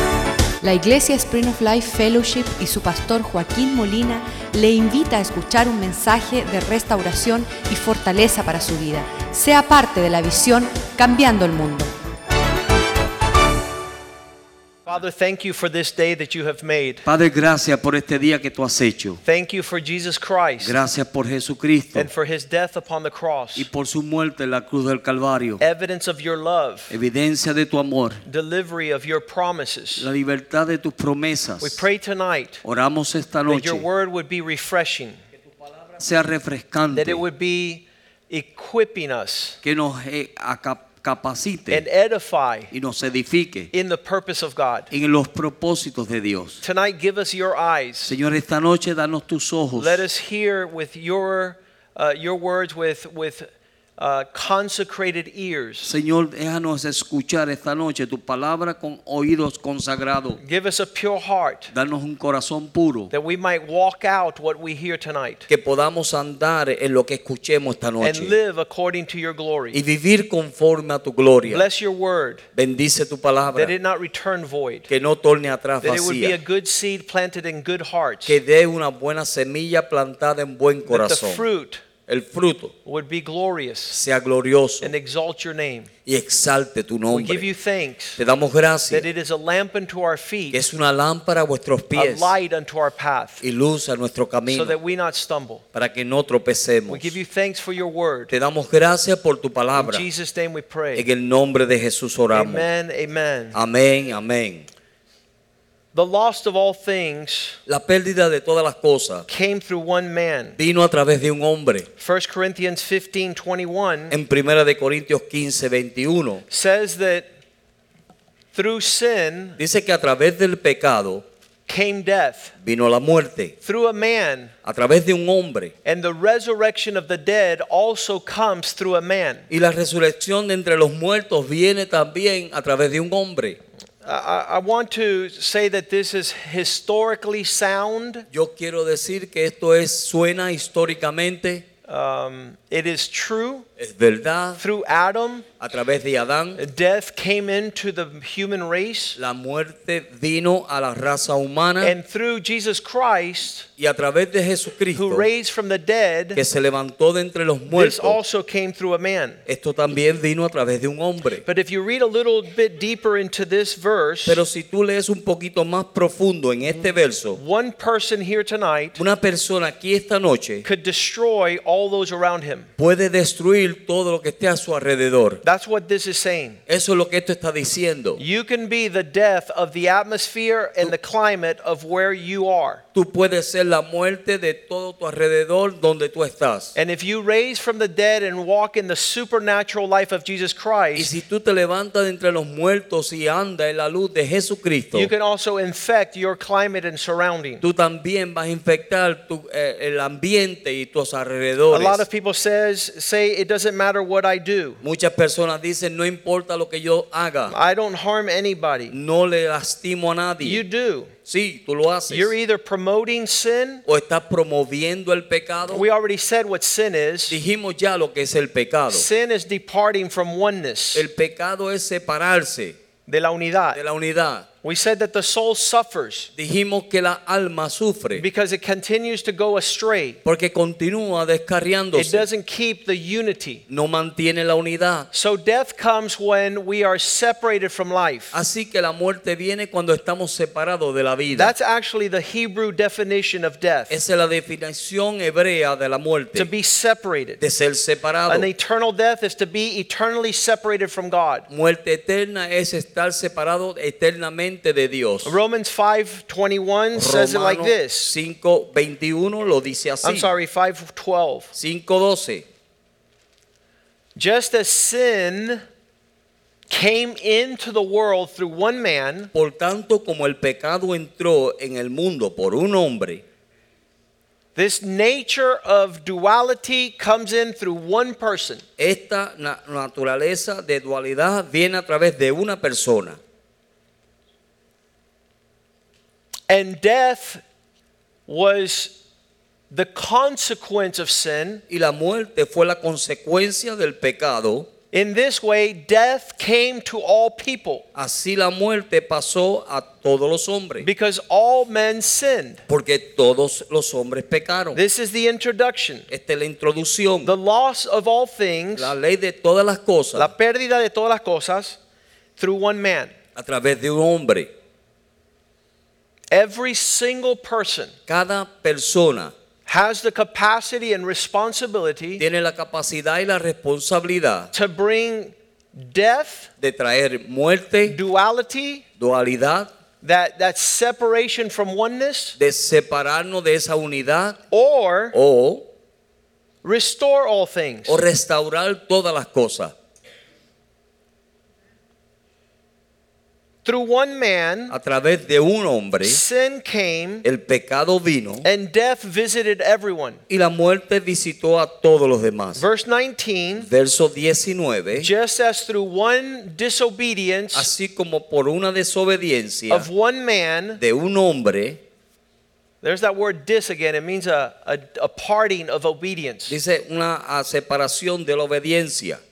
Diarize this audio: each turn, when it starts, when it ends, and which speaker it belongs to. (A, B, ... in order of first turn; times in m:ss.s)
0:00.6-0:11.9 A
0:14.9-0:17.0 B
0:17.1-0:19.2 C
0:19.2-0:20.8 B
0:20.6-0:22.1 C
0:22.0-0:23.7 B
0:23.6-0:25.6 C
0:25.6-0:26.9 B
0:26.9-0:28.2 C
0:28.3-0:30.1 B
0:30.0-0:31.8 C
0:31.6-0:32.6 B
0:32.6-0:33.8 C
0:33.5-0:35.2 B
0:35.6-0:37.2 C
0:36.9-0:39.6 B
0:39.6-0:41.8 C
0:41.7-0:42.7 B
0:42.7-0:43.7 C
0:43.7-0:44.9 B
0:44.9-0:46.6 C
0:46.6-0:48.1 B
0:48.0-0:50.0 C
0:49.8-0:55.9 B
0:55.8-1:00.4 C
1:00.4-1:01.7 B
1:01.7-1:03.1 C
1:03.1-1:05.5 B
1:05.5-1:08.4 C
1:08.0-1:09.8 B
1:09.7-1:11.6 C
1:11.5-1:12.4 B
1:12.6-1:13.7 C
1:13.6-1:14.9 B
1:14.9-1:16.4 C
1:15.8-1:18.4 B
1:18.3-1:21.4 C
1:20.9-1:21.8 B
1:22.1-1:22.7 C
1:22.9-1:24.0 B
1:23.9-1:24.9 C
1:24.8-1:25.9 B
1:26.1-1:27.5 C
1:27.1-1:28.2 B
1:28.2-1:29.1 C
1:28.9-1:30.6 B
1:30.5-1:32.3 C
1:32.0-1:33.4 B
1:33.4-1:34.8 C
1:34.5-1:35.6 B
1:35.7-1:37.2 C
1:36.9-1:38.3 B
1:38.3-1:40.0 C
1:39.8-1:41.1 B
1:40.9-1:42.7 C
1:42.3-1:43.6 B
1:43.5-1:44.7 C
1:45.9-1:47.6 B
1:47.7-1:49.3 C
1:49.3-1:50.6 B
1:50.6-1:51.9 C
1:52.0-1:54.1 B
1:54.1-1:56.4 C
1:56.5-1:57.3 B
1:58.5-1:59.6 B
1:59.6-2:01.2 C
2:01.7-2:02.5 B
2:02.6-2:03.6 C
2:03.6-2:04.5 B
2:04.6-2:05.7 C
2:05.8-2:09.5 B
2:09.5-2:13.6 C
2:14.0-2:18.3 B
2:18.3-2:21.6 C
2:21.9-2:23.7 B
2:23.8-2:24.6 C
2:24.6-2:25.5 B
2:25.6-2:26.6 C
2:26.6-2:29.2 B
2:29.2-2:32.0 C
2:31.8-2:33.7 B
2:33.8-2:35.3 C
2:34.9-2:36.4 B
2:36.4-2:38.2 C
2:37.7-2:39.4 B
2:39.5-2:41.4 C
2:41.5-2:44.4 B
2:44.3-2:47.4 C
2:46.7-2:49.0 B
2:49.0-2:50.7 C
2:50.6-2:52.7 B
2:52.8-2:55.4 C
2:55.4-2:56.6 B
2:56.7-2:58.2 C
2:58.2-3:02.8 B
3:02.9-3:06.7 C
3:06.8-3:11.1 B
3:11.0-3:15.1 C
3:14.9-3:17.6 B
3:17.6-3:22.0 C
3:21.7-3:24.8 B
3:24.8-3:27.6 C
3:27.5-3:28.9 B
3:28.9-3:30.6 C
3:30.4-3:31.1 B
3:31.3-3:32.3 C
3:32.1-3:33.8 B
3:33.9-3:35.9 C
3:35.7-3:37.4 B
3:37.3-3:39.1 C
3:38.9-3:41.1 B
3:40.9-3:42.8 C
3:43.1-3:43.8 B
3:43.7-3:44.5 C
3:44.6-3:46.3 B
3:46.4-3:48.2 C
3:48.2-3:50.2 B
3:50.2-3:52.3 C
3:52.0-3:53.6 B
3:53.7-3:55.1 C
3:55.1-3:58.3 B
3:58.3-4:01.5 C
4:01.3-4:03.9 B
4:03.9-4:06.5 C
4:06.4-4:07.4 B
4:07.4-4:08.5 C
4:08.3-4:11.5 B
4:11.5-4:15.4 C
4:15.2-4:18.1 B
4:17.0-4:20.3 C
4:20.0-4:21.5 B
4:21.6-4:22.4 C
4:24.2-4:25.6 B
4:26.7-4:29.3 B
4:29.3-4:33.2 C
4:34.6-4:38.6 B
4:38.8-4:43.2 C
4:46.5-4:47.4 B
4:48.3-4:49.0 B
4:49.7-4:51.6 B
4:51.7-4:54.7 C
4:54.9-4:57.8 B
4:58.0-5:00.9 C
5:00.8-5:02.6 B
5:02.7-5:04.8 C
5:04.8-5:06.1 B
5:06.1-5:07.3 C
5:07.2-5:08.9 B
5:08.8-5:10.3 C
5:10.2-5:11.8 B
5:12.4-5:13.1 B
5:13.4-5:14.5 C
5:16.3-5:17.9 B
5:18.1-5:19.3 C
5:19.7-5:22.2 B
5:22.2-5:24.5 C
5:24.5-5:26.5 B
5:26.6-5:28.0 C
5:27.9-5:28.8 B
5:29.0-5:29.7 C
5:30.0-5:32.4 B
5:32.4-5:34.4 C
5:34.5-5:35.2 B
5:35.1-5:35.6 C
5:36.6-5:38.0 B
5:37.9-5:39.7 C
5:43.6-5:44.7 B
5:44.7-5:46.2 C
5:46.0-5:47.2 B
5:47.2-5:48.5 C
5:48.4-5:50.2 B
5:50.3-5:52.7 C
5:52.6-5:53.7 B
5:53.6-5:55.1 C
5:55.0-5:57.7 B
5:57.6-5:59.9 C
5:59.7-6:00.8 B
6:00.8-6:01.8 C
6:02.8-6:06.6 B
6:06.5-6:09.2 C